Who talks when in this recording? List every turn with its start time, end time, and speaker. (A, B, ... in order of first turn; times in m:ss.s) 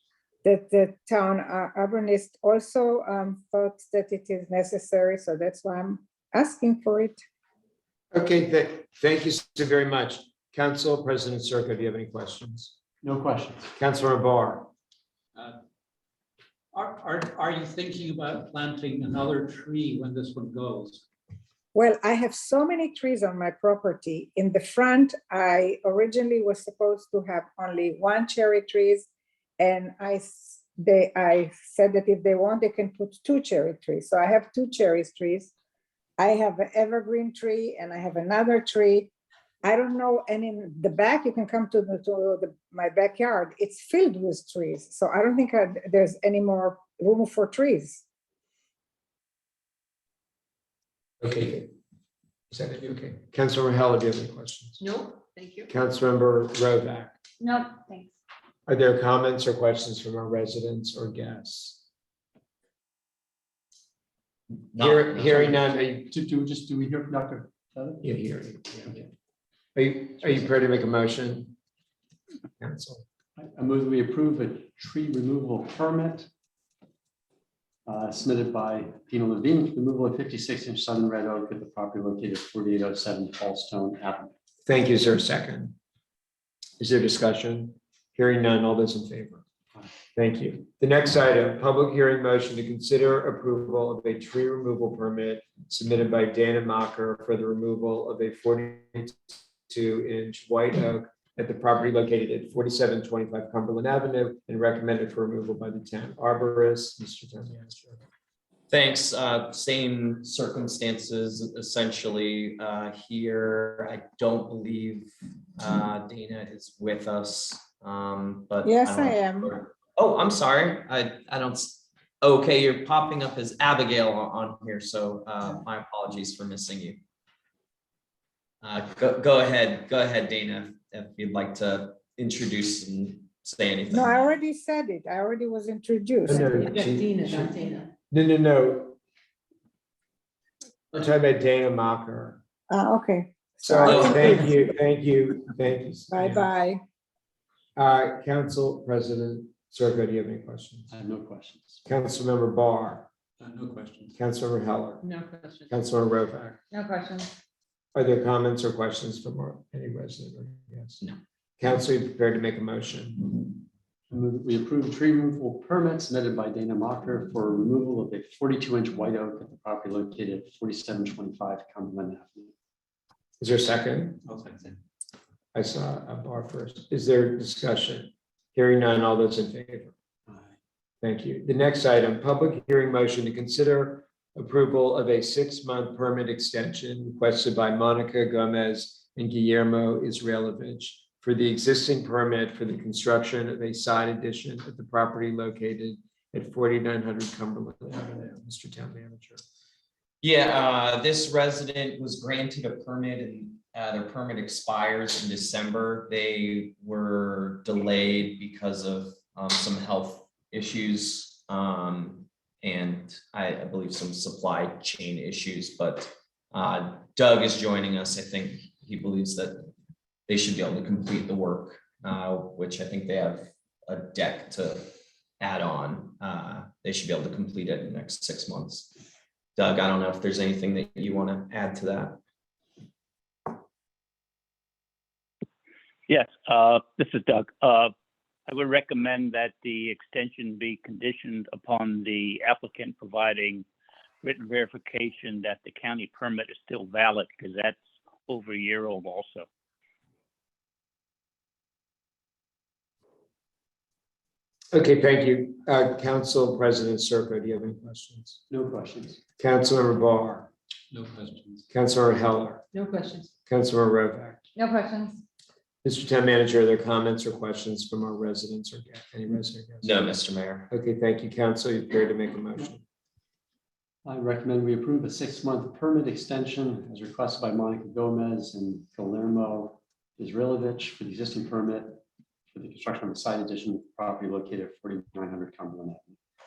0:00.4-0:07.2 A
0:08.1-0:12.7 B
0:13.0-0:13.7 C
0:13.8-0:14.7 B
0:16.7-0:21.0 D
0:21.7-0:35.5 A
0:36.2-0:39.1 A
0:39.6-0:48.0 A
0:51.2-0:51.7 B
0:52.5-0:54.8 B
0:54.8-0:55.7 E
0:55.7-0:57.1 B
0:57.4-0:58.2 E
0:58.7-1:01.8 B
1:04.7-1:05.4 F
1:04.7-1:06.1 B
1:05.2-1:08.0 C
1:08.0-1:08.8 B
1:09.7-1:11.5 B
1:12.6-1:13.0 B
1:13.4-1:16.3 C
1:17.8-1:24.3 C
1:24.6-1:25.7 B
1:26.8-1:29.4 B
1:30.1-1:47.6 B
1:48.7-2:07.0 F
1:58.6-1:59.6 A
2:08.6-2:14.1 F
2:13.9-2:16.6 A
2:16.2-2:17.3 B
2:16.8-2:17.9 E
2:18.1-2:19.0 B
2:20.9-2:22.4 B
2:22.7-2:24.5 A
2:23.6-2:26.4 B
2:23.9-2:24.2 F
2:26.1-2:26.8 A
2:27.8-2:30.9 B
2:30.9-2:31.8 C
2:31.8-2:33.1 B
2:33.4-2:34.1 D
2:34.2-2:35.0 B
2:35.0-2:35.7 E
2:35.7-2:36.6 B
2:36.7-2:37.3 E
2:37.9-2:41.0 B
2:41.6-2:43.6 B
2:44.1-2:52.5 C
2:53.4-2:54.2 B
2:55.5-2:59.9 B
3:01.0-3:19.4 B
3:20.2-3:39.7 F
3:40.3-3:48.9 F
3:49.6-3:52.2 F
3:56.1-3:57.9 G
3:58.5-4:03.6 G
4:04.2-4:09.4 G
4:14.7-4:18.4 B
4:18.5-4:19.2 C
4:19.4-4:20.5 B
4:20.9-4:21.6 D
4:21.7-4:22.6 B
4:22.7-4:23.3 E
4:23.5-4:24.4 B
4:24.5-4:25.2 E
4:25.8-4:30.0 B
4:29.8-4:30.7 F
4:30.7-4:32.8 B
4:34.0-4:42.0 C
4:42.5-4:46.2 C